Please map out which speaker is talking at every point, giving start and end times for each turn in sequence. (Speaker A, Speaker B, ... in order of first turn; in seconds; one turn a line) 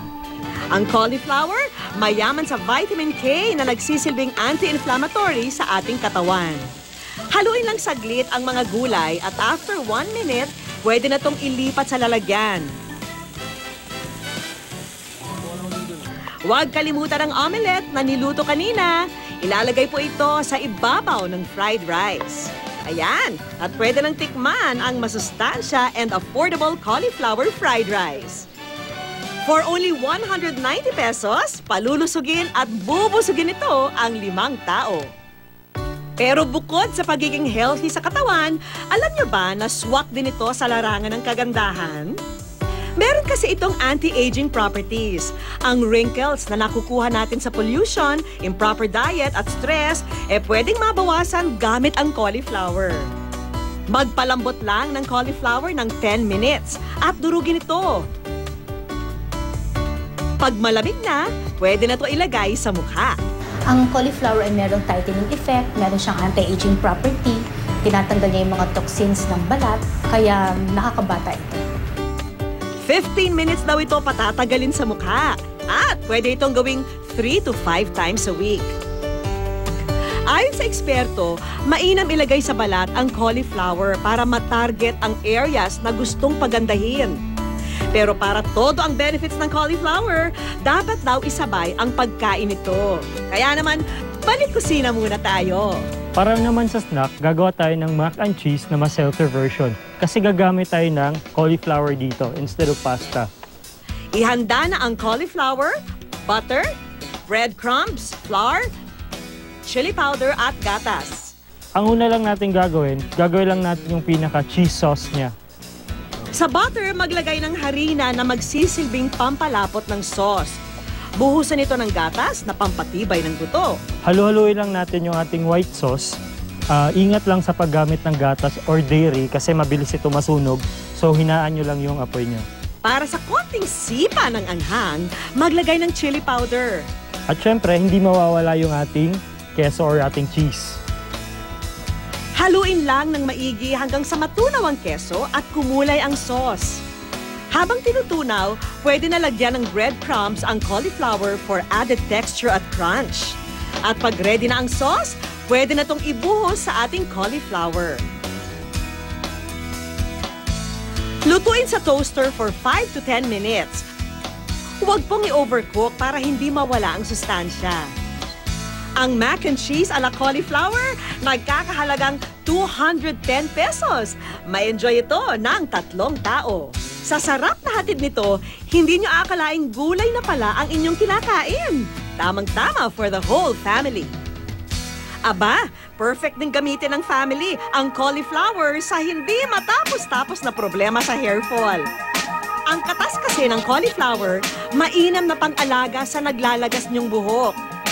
Speaker A: 0.7-6.7
Speaker A: 7.3-12.7
Speaker A: 16.5-28.5
Speaker A: 29.4-35.1
Speaker A: 36.2-42.2
Speaker A: 43.0-53.1
Speaker A: 53.9-58.1
Speaker A: 60.4-63.2
Speaker B: 63.7-71.6
Speaker A: 72.8-78.7
Speaker A: 80.3-87.2
Speaker A: 87.9-95.9
Speaker C: 96.2-103.3
Speaker A: 104.1-106.7
Speaker A: 107.3-108.7
Speaker A: 109.7-111.3
Speaker C: 111.8-115.3
Speaker A: 116.3-120.6
Speaker A: 121.2-123.8
Speaker C: 124.0-126.2
Speaker C: 126.7-132.4
Speaker A: 132.8-136.9
Speaker C: 137.3-140.8
Speaker A: 142.4-146.8
Speaker A: 147.5-158.0
Speaker A: 161.2-163.9
Speaker A: 164.8-167.9
Speaker A: 169.0-184.1
Speaker A: 185.3-191.9
Speaker A: 192.7-197.6